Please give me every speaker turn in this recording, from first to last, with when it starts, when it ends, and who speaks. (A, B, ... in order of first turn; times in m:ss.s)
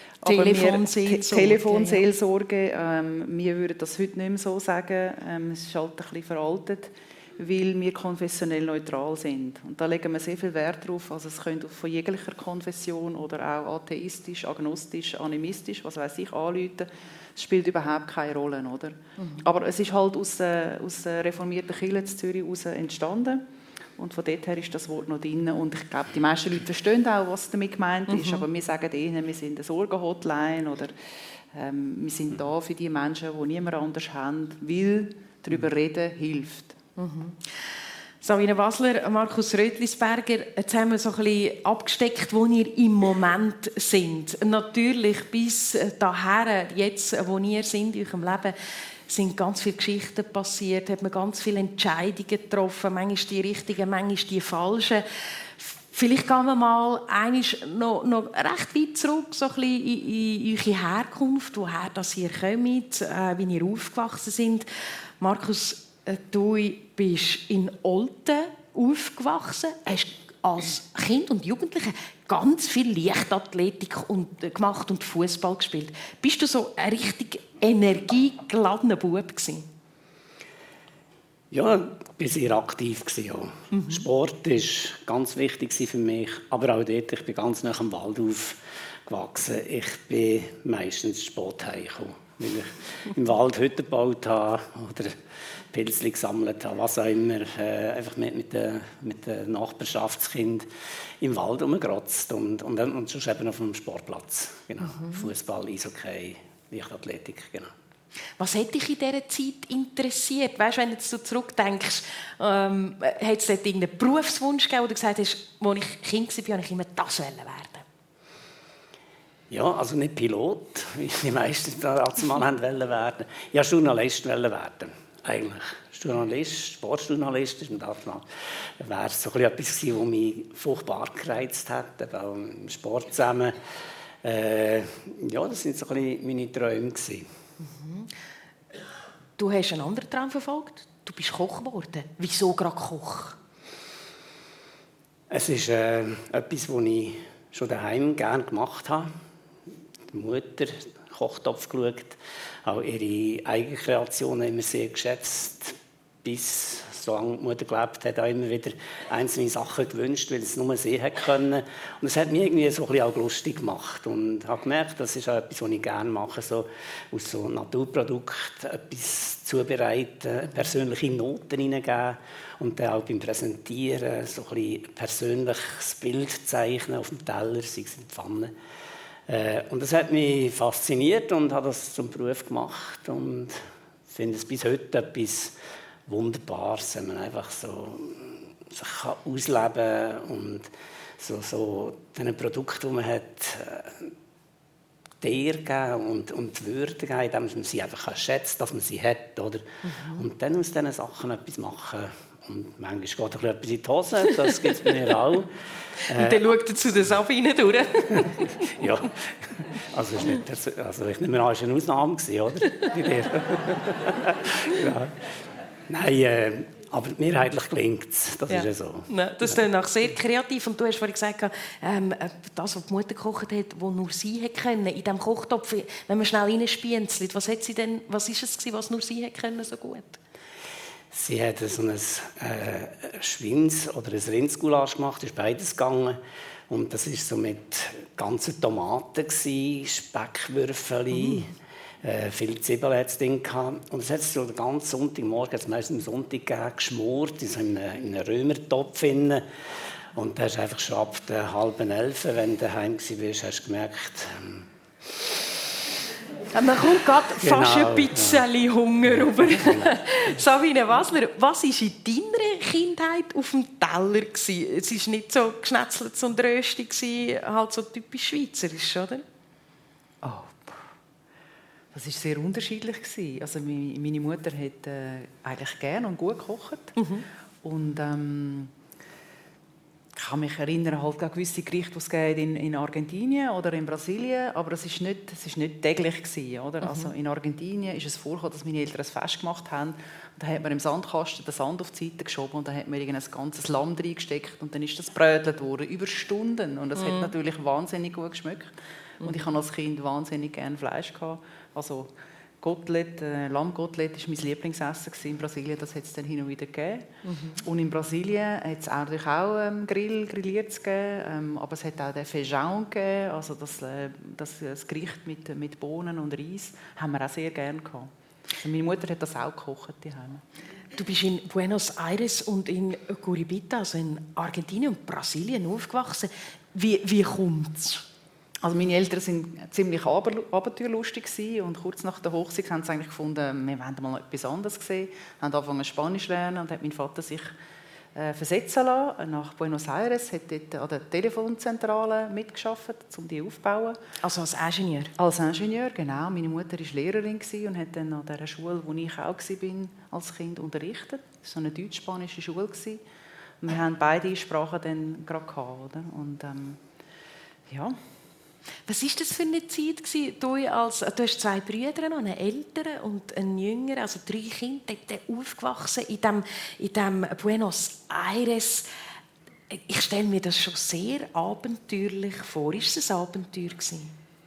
0:00.2-0:23.4 A
0:00.2-0:02.1 B
0:24.0-0:30.9 A
0:28.1-0:28.4 B
0:31.5-0:36.8 A
0:37.0-0:37.5 B
0:38.2-0:48.6 B
0:49.1-0:55.0 B
0:55.6-1:04.7 B
1:05.2-1:19.7 B
1:21.5-1:35.2 C
1:23.7-1:24.0 B
1:35.7-1:40.7 C
1:41.2-1:47.7 C
1:44.8-1:45.3 B
1:48.4-1:57.8 B
1:59.5-2:08.3 C
2:08.8-2:13.6 C
2:14.2-2:17.3 C
2:17.6-2:18.1 B
2:19.4-2:23.4 B
2:25.3-2:29.1 C
2:30.1-2:58.5 C
2:59.3-3:05.6 C
3:06.1-3:14.1 C
3:15.2-3:25.5 C
3:19.8-3:20.2 B
3:26.1-3:26.4 C
3:26.1-3:28.6 B
3:28.6-3:35.2 C
3:35.9-3:39.5 C
3:38.5-3:50.2 B
3:51.1-4:09.4 C
4:10.1-4:14.7 C
4:16.5-4:29.2 B
4:17.4-4:18.4 C
4:19.5-4:19.9 C
4:30.2-4:30.9 A
4:31.9-4:37.0 A
4:37.0-4:37.2 B
4:37.6-4:38.7 A
4:40.2-5:02.1 A
4:46.8-4:47.1 B
4:57.0-4:57.3 B
5:02.6-5:07.1 A
5:07.2-5:07.6 B
5:07.6-5:20.4 A
5:21.0-5:28.0 B
5:28.6-5:37.5 A
5:38.2-5:44.0 A
5:44.2-5:45.1 B
5:45.2-5:53.0 A
5:53.6-5:56.8 A
5:57.7-5:58.0 A
5:58.9-6:08.9 B
6:09.7-6:14.1 B